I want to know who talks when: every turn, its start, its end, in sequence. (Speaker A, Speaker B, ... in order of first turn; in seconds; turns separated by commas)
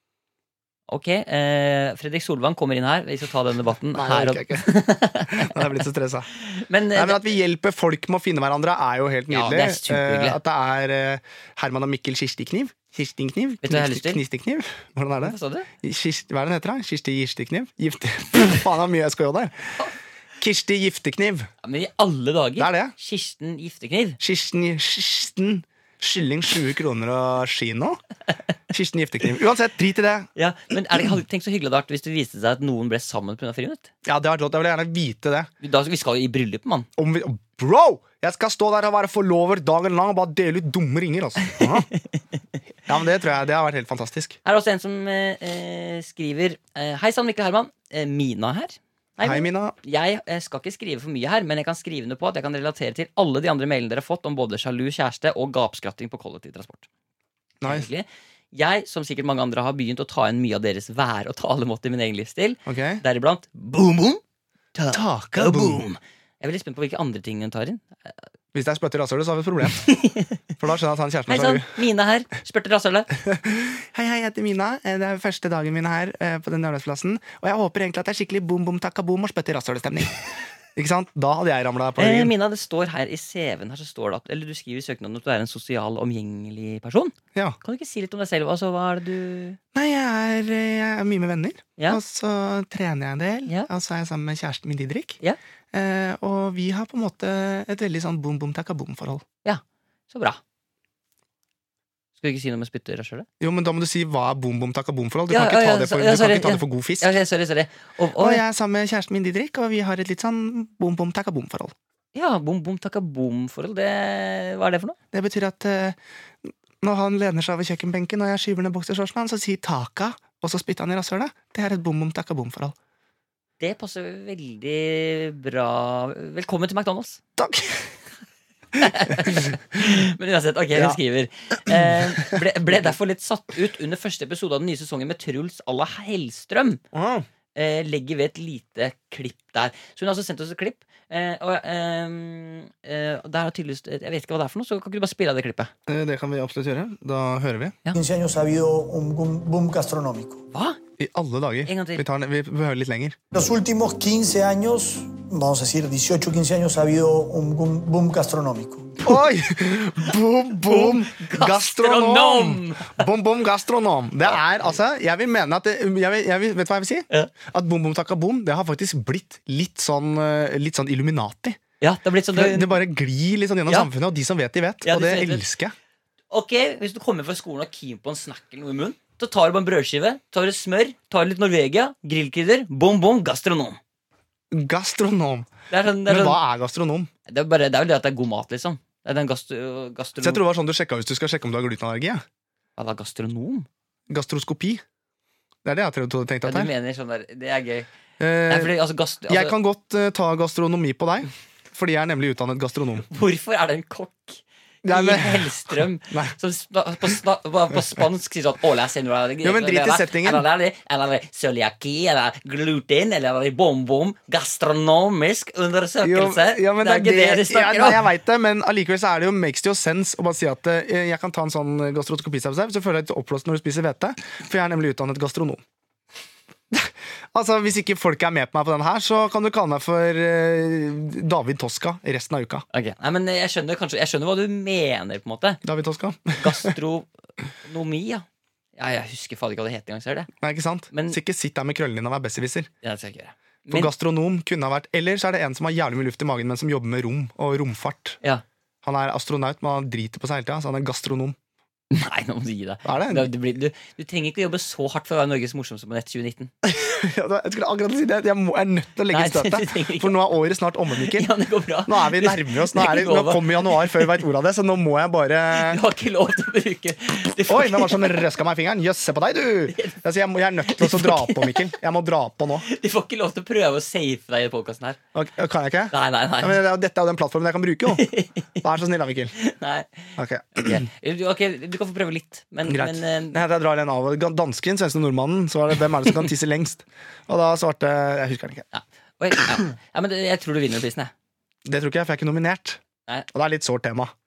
Speaker A: 0.9-5.7, Speaker B: 3.9-4.7, Speaker B: 5.3-6.3, Speaker A: 6.3-7.4, Speaker B: 6.9-19.8, Speaker A: 9.3-10.4, Speaker A: 13.6-14.2, Speaker A: 15.2-15.7, Speaker B: 20.4-21.5, Speaker A: 21.6-24.2, Speaker B: 22.6-22.9, Speaker B: 24.2-28.0, Speaker B: 28.7-30.3, Speaker A: 30.4-33.9, Speaker B: 34.0-35.5, Speaker A: 35.6-36.9, Speaker B: 37.0-41.9, Speaker B: 42.9-44.4, Speaker A: 44.5-56.9, Speaker B: 49.2-49.8, Speaker B: 57.6-57.9, Speaker A: 57.6-64.2, Speaker B: 62.7-63.0, Speaker A: 64.8-68.2, Speaker B: 64.9-65.8, Speaker B: 68.5-69.9, Speaker A: 69.8-70.4, Speaker B: 70.6-71.8, Speaker A: 71.3-73.1, Speaker B: 73.2-80.2, Speaker B: 80.8-82.3, Speaker A: 82.0-89.6, Speaker B: 89.7-95.2, Speaker B: 95.7-99.2, Speaker A: 99.4-100.4, Speaker A: 102.2-103.3, Speaker B: 103.4-107.1, Speaker A: 105.3-108.4, Speaker B: 108.2-111.7, Speaker A: 112.1-115.0, Speaker B: 115.1-122.8, Speaker A: 123.6-127.2, Speaker B: 127.4-127.9, Speaker A: 128.8-136.8, Speaker B: 128.8-129.5, Speaker B: 131.7-132.4, Speaker B: 136.9-137.3, Speaker A: 137.6-145.7, Speaker B: 145.9-147.8, Speaker C: 147.9-150.4, Speaker A: 150.5-150.8, Speaker B: 151.0-153.2, Speaker A: 151.7-152.1, Speaker C: 153.3-159.0, Speaker B: 159.0-171.6, Speaker A: 160.7-163.1, Speaker A: 171.8-172.7, Speaker B: 172.3-175.8, Speaker A: 174.8-175.5, Speaker A: 176.3-183.8, Speaker B: 184.5-185.5, Speaker A: 185.7-186.4, Speaker B: 186.1-187.1, Speaker A: 187.3-190.4, Speaker B: 190.2-192.2, Speaker A: 192.8-193.7, Speaker B: 194.1-194.8, Speaker B: 195.7-196.7, Speaker A: 196.4-197.9, Speaker B: 198.2-198.8, Speaker A: 198.5-199.6, Speaker B: 199.3-203.1, Speaker A: 203.1-218.1, Speaker B: 204.8-206.3, Speaker B: 209.4-210.5, Speaker B: 216.0-225.6, Speaker B: 226.7-232.7, Speaker A: 232.7-235.6, Speaker B: 235.6-236.7, Speaker A: 236.4-237.1, Speaker A: 237.6-238.2, Speaker A: 238.8-240.3, Speaker B: 240.4-242.7, Speaker A: 240.9-241.2, Speaker A: 242.8-243.9, Speaker B: 243.7-248.2, Speaker B: 248.8-251.4, Speaker A: 251.9-256.5, Speaker B: 252.8-253.3, Speaker B: 256.6-261.3, Speaker A: 259.1-260.2, Speaker A: 261.0-264.0, Speaker B: 261.9-265.8, Speaker A: 265.5-268.3, Speaker B: 267.5-272.7, Speaker A: 269.7-270.0, Speaker A: 270.6-271.7, Speaker A: 272.6-275.0, Speaker B: 275.1-278.1, Speaker A: 275.9-276.6, Speaker A: 277.9-278.5, Speaker B: 278.6-279.3, Speaker A: 279.4-283.4, Speaker B: 280.2-280.9, Speaker B: 282.7-288.6, Speaker A: 288.7-291.1, Speaker B: 291.6-294.1